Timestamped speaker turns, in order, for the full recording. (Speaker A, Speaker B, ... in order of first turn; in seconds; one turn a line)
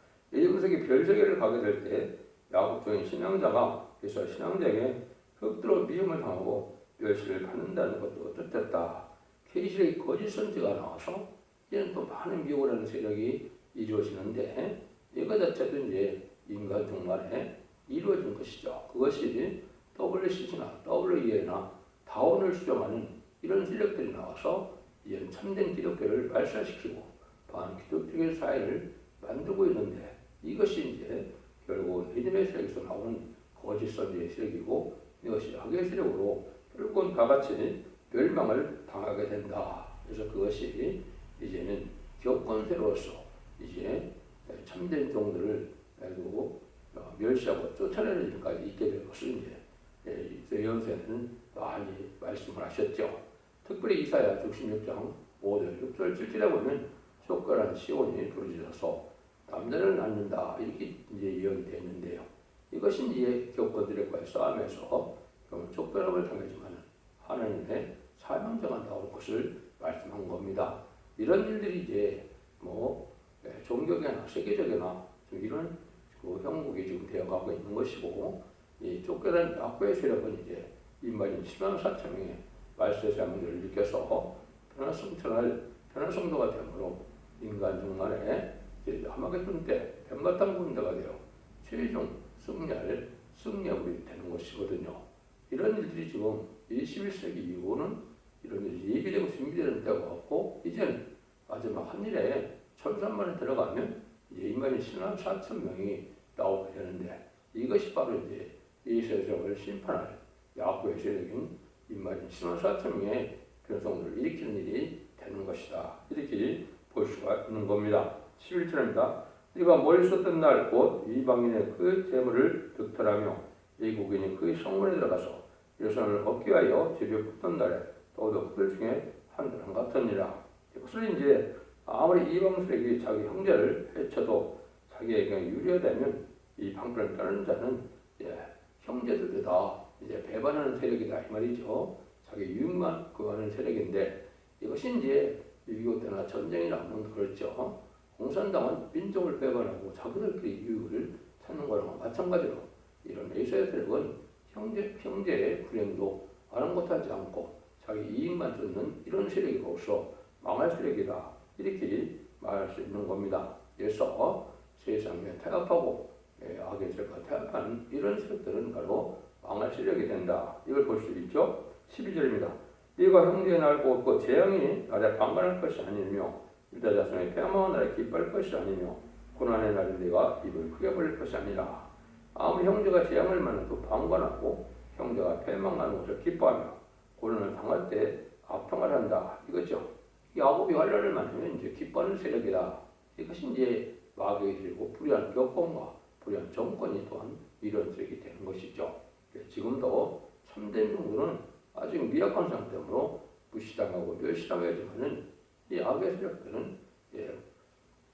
Speaker A: 0.3-207.4